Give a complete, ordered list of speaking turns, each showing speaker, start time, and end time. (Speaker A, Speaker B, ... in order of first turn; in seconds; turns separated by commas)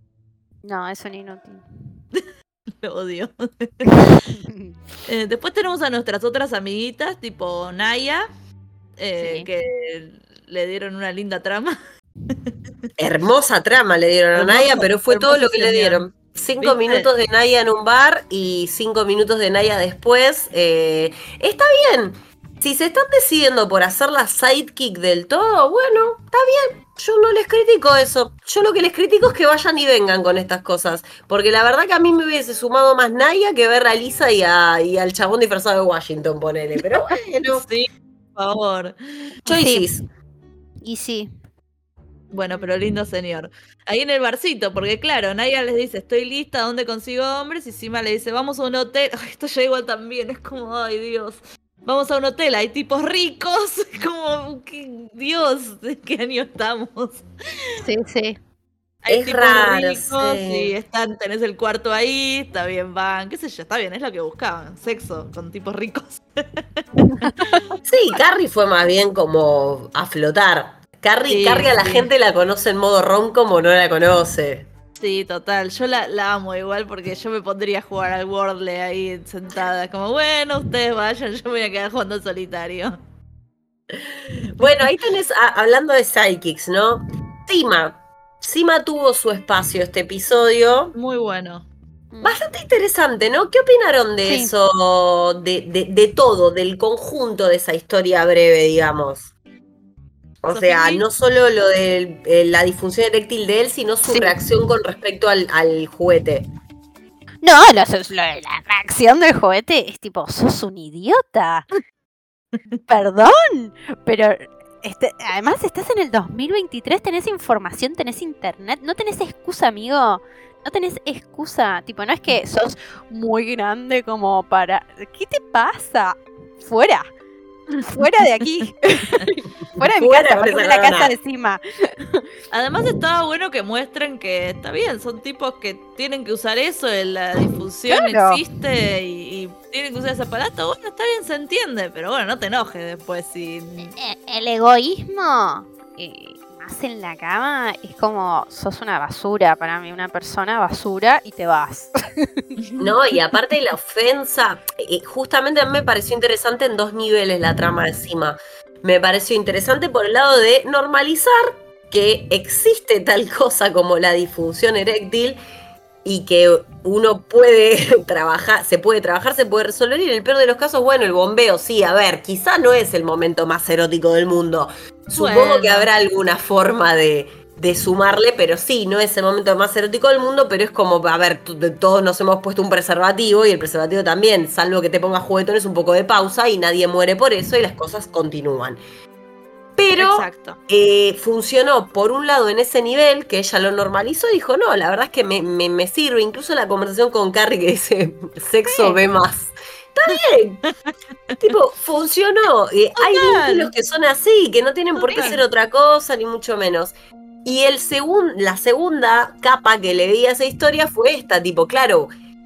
Speaker A: 0.6-1.6, Speaker B: 2.8-4.2, Speaker A: 3.9-4.7, Speaker B: 5.1-8.3, Speaker B: 9.0-11.8, Speaker A: 9.2-9.5, Speaker B: 12.3-12.5, Speaker C: 13.0-37.7, Speaker B: 14.3-16.0, Speaker B: 16.6-17.1, Speaker B: 37.5-39.3, Speaker A: 39.5-39.9, Speaker C: 39.5-40.0, Speaker A: 40.8-41.3, Speaker B: 42.3-57.2, Speaker A: 57.8-58.4, Speaker B: 59.0-67.6, Speaker C: 59.1-60.8, Speaker C: 67.9-74.7, Speaker B: 71.3-72.1, Speaker B: 75.0-83.0, Speaker C: 83.9-90.9, Speaker B: 91.0-91.7, Speaker A: 92.1-92.4, Speaker C: 92.2-99.3, Speaker A: 94.2-94.5, Speaker C: 100.4-106.5, Speaker B: 100.5-101.0, Speaker A: 104.1-104.4, Speaker A: 107.4-111.7, Speaker A: 112.9-127.1, Speaker A: 127.8-132.2, Speaker C: 129.8-131.1, Speaker B: 132.5-143.9, Speaker A: 137.4-138.4, Speaker A: 144.0-152.3, Speaker B: 152.6-152.9, Speaker C: 152.8-165.4, Speaker C: 166.0-188.8, Speaker B: 175.2-175.9, Speaker C: 189.8-200.6, Speaker B: 190.0-190.6, Speaker A: 198.7-199.0, Speaker C: 201.4-212.1, Speaker B: 203.0-203.7, Speaker A: 205.0-205.3, Speaker B: 205.1-205.4